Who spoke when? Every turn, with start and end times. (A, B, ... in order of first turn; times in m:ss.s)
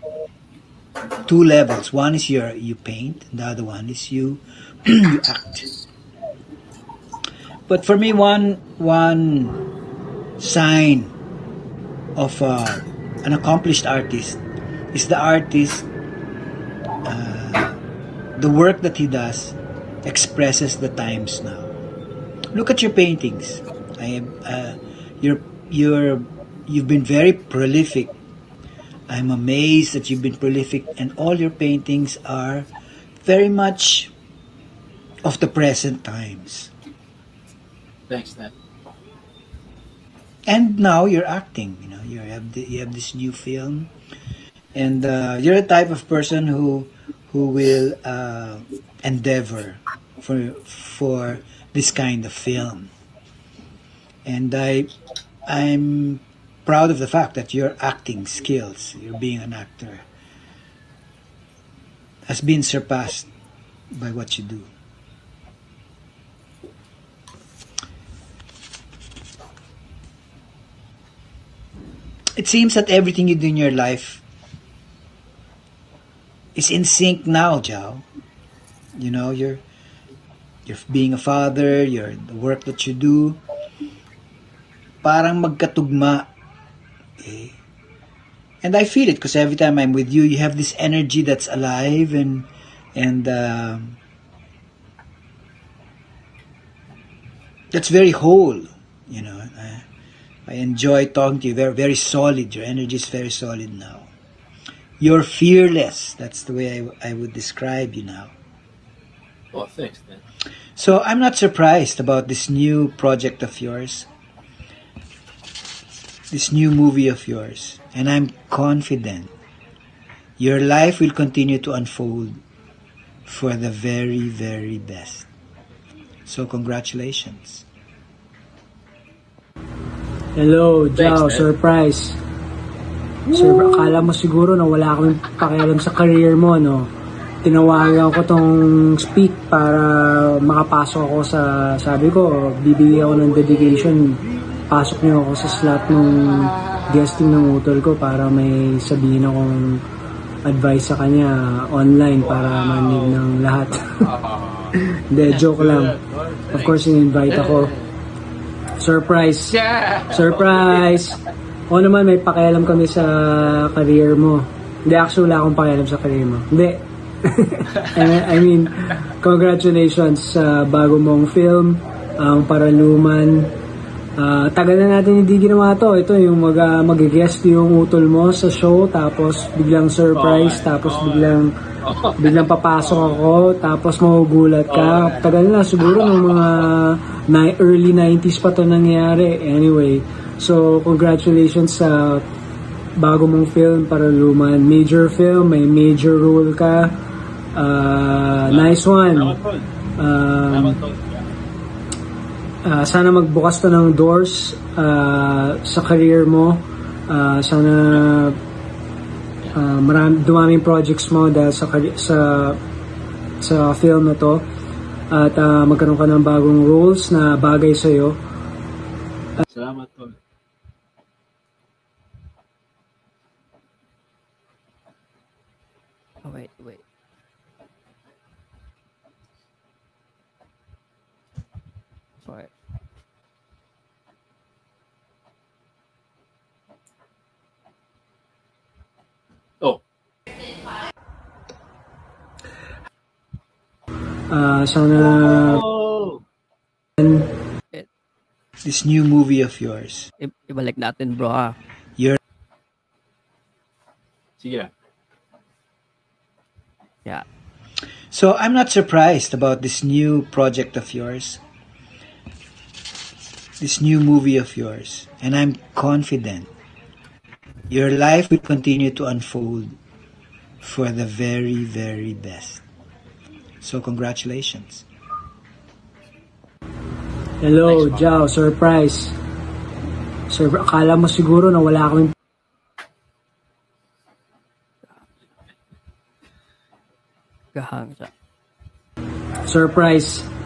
0:01.3-0:05.8 A
0:07.7-0:09.6 A
0:10.4-0:11.1 A
0:12.2-0:14.4 A
0:14.9-0:15.9 A
0:17.0-0:17.8 A
0:18.4-0:21.8 A
0:22.5-0:28.1 A
0:29.1-0:32.7 A
0:33.2-0:34.1 A
0:35.2-0:36.7 A
0:38.1-0:38.5 B
0:40.5-0:43.9 A
0:44.8-0:52.9 A
0:54.3-0:54.9 A
0:55.5-1:00.0 A
1:02.3-1:03.3 A
1:03.9-1:04.7 A
1:12.4-1:14.2 A
1:16.6-1:18.0 A
1:19.0-1:19.6 A
1:20.7-1:23.4 A
1:25.0-1:26.3 A
1:27.2-1:27.6 A
1:28.6-1:34.0 A
1:37.7-1:39.8 A
1:40.5-1:44.1 A
1:45.0-1:48.3 A
1:49.5-1:50.2 B
1:50.8-1:54.1 A
1:56.3-1:59.3 A
2:00.4-2:02.4 A
2:03.3-2:05.3 A
2:06.3-2:07.6 A
2:10.4-2:12.2 C
2:11.0-2:11.5 B
2:13.3-2:16.9 C
2:17.4-2:24.2 C
2:22.9-2:27.1 B
2:24.7-2:29.8 C
2:30.5-2:33.8 C
2:32.2-2:33.2 B
2:34.0-2:34.7 B
2:35.1-2:36.0 C
2:35.3-2:37.9 B
2:36.5-2:37.7 C
2:38.8-2:39.6 C
2:39.5-2:40.9 B
2:40.1-2:41.2 C
2:41.7-2:46.8 C
2:47.4-2:53.5 C
2:47.8-2:48.1 B
2:54.2-3:01.5 C
3:00.1-3:03.3 B
3:02.2-3:12.2 C
3:04.7-3:06.7 B
3:13.0-3:16.9 C
3:17.6-3:19.4 C
3:18.5-3:19.7 B
3:20.0-3:20.8 C
3:20.5-3:21.3 B
3:22.7-3:28.4 C
3:29.6-3:32.6 C
3:33.4-3:34.4 C
3:35.1-3:38.2 C
3:39.5-3:40.2 B
3:46.2-3:46.8 D
4:04.3-4:05.7 C
4:05.0-4:06.2 B
4:07.0-4:07.3 C
4:08.6-4:10.1 A
4:10.2-4:11.6 D
4:14.4-4:14.7 B
4:18.1-4:21.4 A
4:23.6-4:26.5 A
4:27.7-4:29.8 A
4:30.6-4:32.6 A
4:33.6-4:34.9 A
4:37.4-4:39.1 C
4:37.7-4:38.0 B
4:40.3-4:42.1 C
4:47.6-4:48.1 D
4:49.5-4:50.3 C